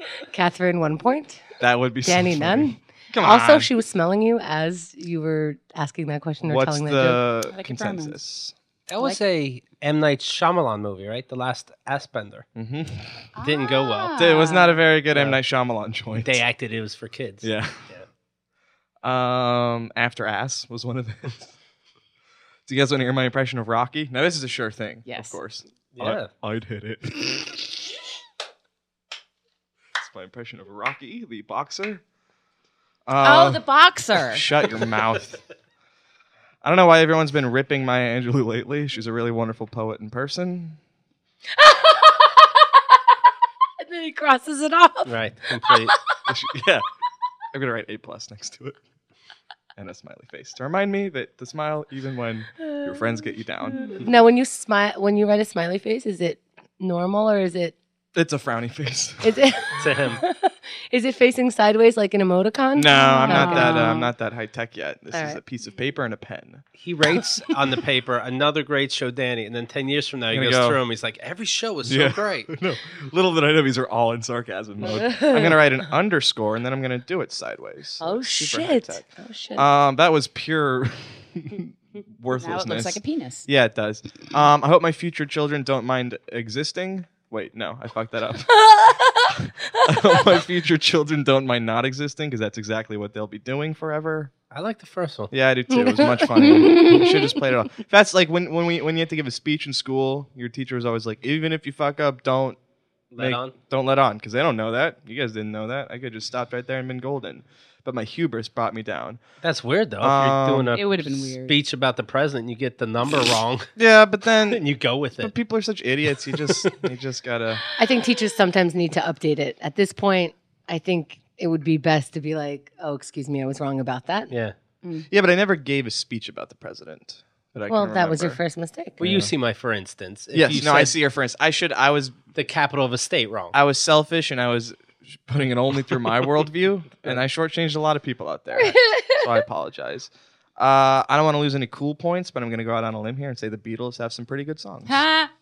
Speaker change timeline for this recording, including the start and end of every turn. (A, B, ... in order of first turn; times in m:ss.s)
0:00.3-0:01.4 A
0:01.6-0:03.7 B
0:02.0-0:07.3 A
0:06.5-0:08.5 B
0:07.5-0:08.2 C
0:08.9-0:12.5 D
0:12.6-0:13.3 B
0:13.4-0:14.8 C
0:13.4-0:14.2 D
0:14.2-0:16.4 B
0:15.1-0:15.4 D
0:16.2-0:18.0 D
0:17.4-0:17.9 B
0:19.0-0:21.4 B
0:22.7-0:27.9 B
0:25.1-0:25.4 C
0:26.0-0:26.3 D
0:30.0-0:32.0 B
0:33.1-0:35.4 B
0:33.2-0:34.5 C
0:36.6-0:40.8 B
0:41.6-0:42.6 A
0:43.8-0:45.9 A
0:45.1-0:46.0 D
0:46.3-0:46.8 B
0:47.5-0:48.8 B
0:49.8-0:54.0 B
0:53.8-0:57.8 A
0:58.2-0:59.4 B
0:59.2-1:03.8 A
0:59.8-1:00.2 D
1:02.7-1:06.6 B
1:02.9-1:04.1 C
1:05.1-1:05.4 A
1:06.8-1:12.5 D
1:10.3-1:10.8 B
1:11.8-1:19.0 B
1:14.8-1:15.6 A
1:18.0-1:19.6 A
1:19.6-1:28.7 B
1:22.3-1:23.5 C
1:28.6-1:30.0 A
1:29.3-1:34.3 B
1:34.5-1:35.3 D
1:35.3-1:42.6 B
1:35.7-1:37.1 A
1:36.4-1:37.1 C
1:43.1-1:43.6 D
1:43.2-1:49.2 B
1:49.4-1:53.7 D
1:50.0-1:50.8 B
1:50.7-1:51.6 C
1:53.8-1:54.6 B
1:54.5-1:55.3 D
1:55.2-1:57.6 B
1:56.4-1:56.8 D
1:57.8-2:04.3 A
2:05.1-2:08.4 B
2:07.7-2:09.0 A
2:09.0-2:10.9 D
2:09.0-2:09.3 B
2:10.3-2:12.2 B
2:12.4-2:13.6 D
2:13.5-2:25.0 B
2:18.6-2:19.2 A
2:24.9-2:25.3 C